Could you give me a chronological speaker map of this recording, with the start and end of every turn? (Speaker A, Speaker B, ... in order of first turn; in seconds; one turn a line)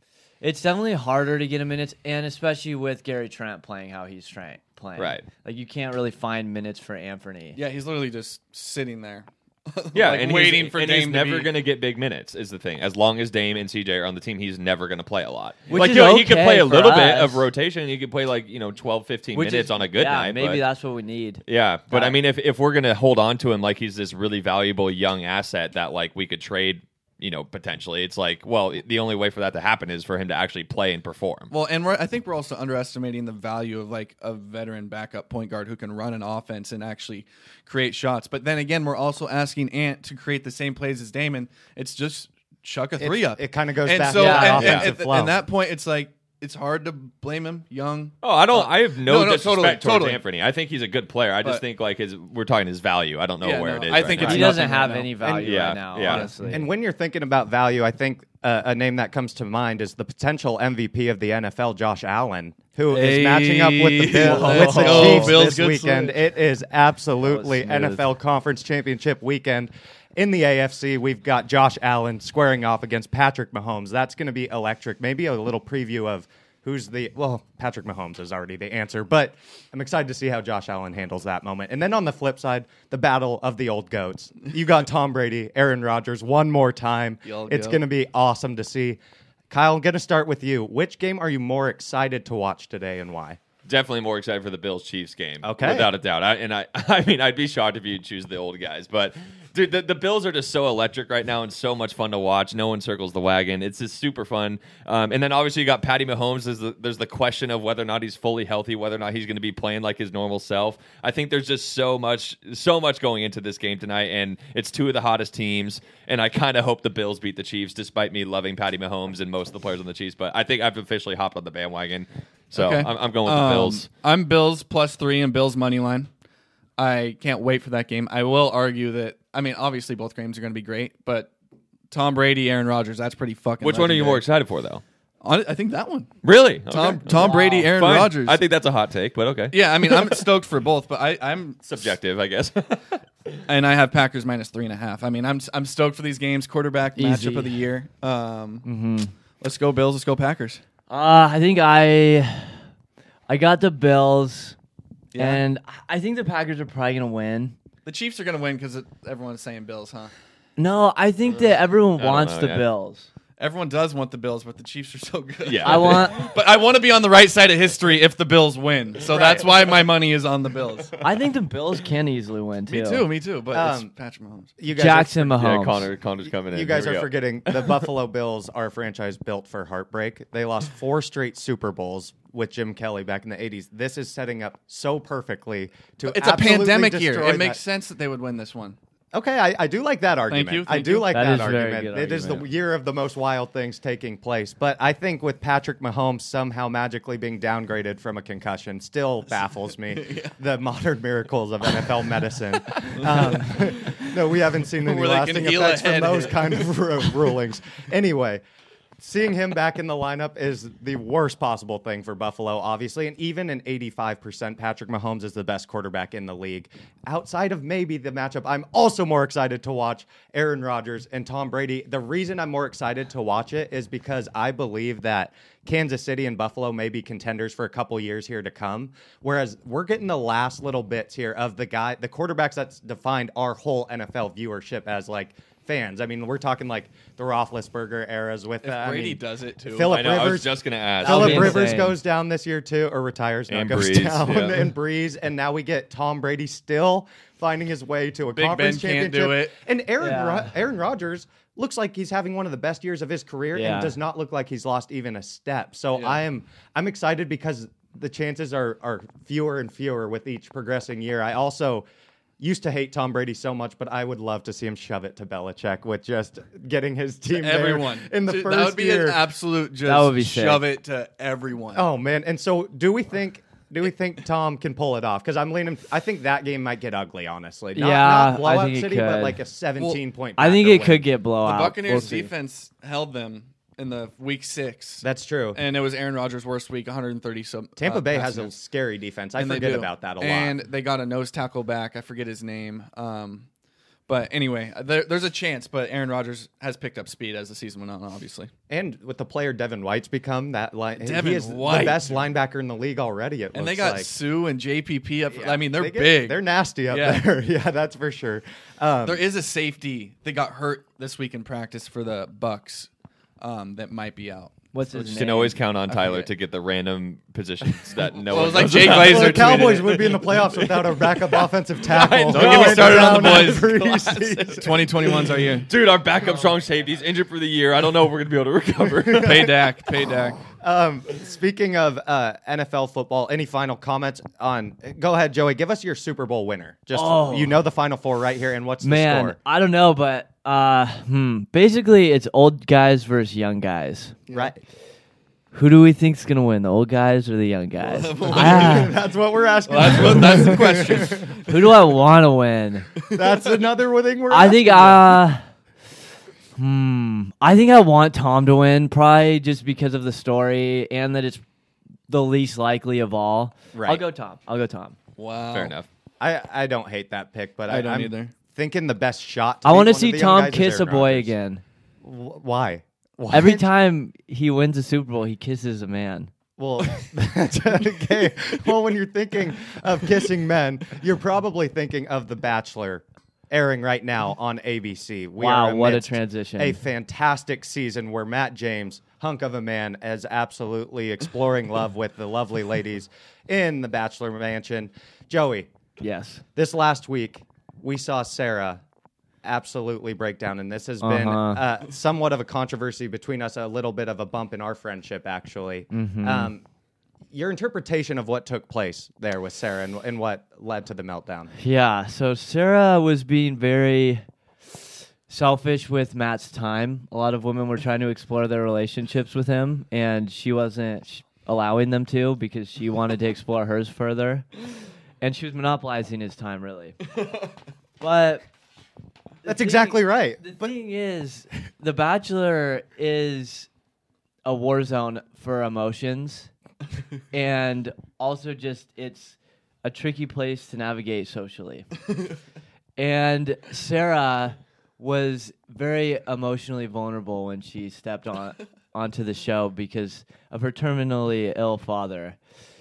Speaker A: 0.4-7.6
Speaker B: 5.0-5.2
Speaker C: 7.5-11.5
Speaker B: 9.9-20.6
Speaker C: 15.7-15.9
Speaker A: 15.7-17.5
Speaker A: 19.3-22.2
Speaker B: 21.5-31.5
Speaker C: 31.5-50.2
Speaker D: 43.0-45.4
Speaker A: 44.1-44.8
Speaker B: 44.5-44.9
Speaker B: 48.2-54.6
Speaker C: 53.4-55.2
Speaker A: 54.2-56.7
Speaker D: 55.2-55.7
Speaker B: 55.4-56.3
Speaker C: 56.1-56.4
Speaker D: 56.5-89.0
Speaker C: 62.9-66.2
Speaker A: 64.1-65.4
Speaker A: 67.2-68.1
Speaker C: 87.2-87.8
Speaker D: 89.5-93.4
Speaker B: 93.7-123.9
Speaker D: 95.4-95.9
Speaker C: 122.6-126.1
Speaker C: 126.8-131.3
Speaker C: 131.9-134.2
Speaker B: 133.6-134.8
Speaker C: 135.2-136.1
Speaker B: 136.2-140.2
Speaker C: 136.7-138.4
Speaker A: 137.1-137.7
Speaker C: 139.5-141.6
Speaker B: 141.6-143.4
Speaker C: 143.5-148.7
Speaker A: 147.0-147.6
Speaker A: 148.6-149.1
Speaker C: 149.4-150.6
Speaker A: 150.9-152.6
Speaker A: 153.3-154.6
Speaker C: 155.1-155.4
Speaker A: 155.2-157.6
Speaker C: 157.8-160.1
Speaker A: 160.6-163.1
Speaker B: 162.0-162.7
Speaker C: 163.4-171.0
Speaker B: 165.4-166.1
Speaker A: 165.6-166.2
Speaker A: 171.0-173.1
Speaker C: 172.7-174.5
Speaker D: 173.5-173.9
Speaker D: 174.6-175.4
Speaker A: 174.7-175.9
Speaker B: 175.4-177.8
Speaker D: 176.4-187.6
Speaker C: 186.1-188.8
Speaker D: 189.1-208.4
Speaker C: 190.3-191.1
Speaker A: 191.1-192.4
Speaker C: 199.9-200.3
Speaker C: 202.9-204.0
Speaker C: 204.8-207.2
Speaker D: 209.0-261.9
Speaker C: 238.6-240.2
Speaker B: 239.8-241.6
Speaker A: 241.0-242.0
Speaker B: 243.5-244.7
Speaker C: 248.3-249.5
Speaker A: 250.0-250.5
Speaker A: 253.5-253.9
Speaker C: 255.9-256.2
Speaker D: 262.4-269.2
Speaker C: 267.3-271.9
Speaker A: 269.9-270.7
Speaker D: 271.7-281.1
Speaker A: 277.8-279.4
Speaker A: 280.4-282.3
Speaker C: 281.4-288.5
Speaker D: 285.0-285.6
Speaker D: 287.8-290.5
Speaker C: 289.4-293.5
Speaker C: 294.1-298.5
Speaker D: 298.7-304.1
Speaker C: 301.0-302.3
Speaker C: 303.5-307.2
Speaker D: 305.3-309.2
Speaker C: 309.1-315.2
Speaker A: 314.7-315.6
Speaker B: 315.1-323.9
Speaker C: 315.9-316.3
Speaker C: 318.3-320.2
Speaker D: 318.7-325.1
Speaker C: 322.3-325.7
Speaker B: 325.7-329.6
Speaker D: 329.1-329.6
Speaker C: 329.2-330.4
Speaker D: 330.5-339.4
Speaker A: 336.9-337.6
Speaker A: 338.8-344.2
Speaker C: 344.3-344.5
Speaker D: 344.3-344.6
Speaker A: 345.5-348.9
Speaker C: 347.8-348.9
Speaker D: 348.2-351.4
Speaker C: 349.7-351.6
Speaker A: 349.9-350.6
Speaker A: 351.4-352.9
Speaker C: 353.1-353.6
Speaker D: 353.1-355.2
Speaker A: 354.3-355.5
Speaker A: 356.6-361.4
Speaker A: 362.1-365.0
Speaker D: 363.7-364.0
Speaker C: 365.2-365.7
Speaker B: 365.5-365.9
Speaker D: 366.2-371.3
Speaker C: 367.7-368.3
Speaker A: 369.6-371.6
Speaker D: 372.0-373.7
Speaker A: 373.3-376.3
Speaker D: 376.6-395.7
Speaker A: 385.4-386.8
Speaker A: 396.0-396.4
Speaker D: 396.6-398.8
Speaker D: 399.4-406.6
Speaker A: 401.0-401.6
Speaker A: 405.9-406.5
Speaker D: 407.3-411.5
Speaker A: 411.6-414.8
Speaker A: 415.3-424.5
Speaker A: 425.2-427.1
Speaker A: 428.0-428.4
Speaker A: 429.4-433.7
Speaker D: 429.4-430.7
Speaker A: 434.4-436.5
Speaker A: 437.3-441.9
Speaker A: 443.0-452.4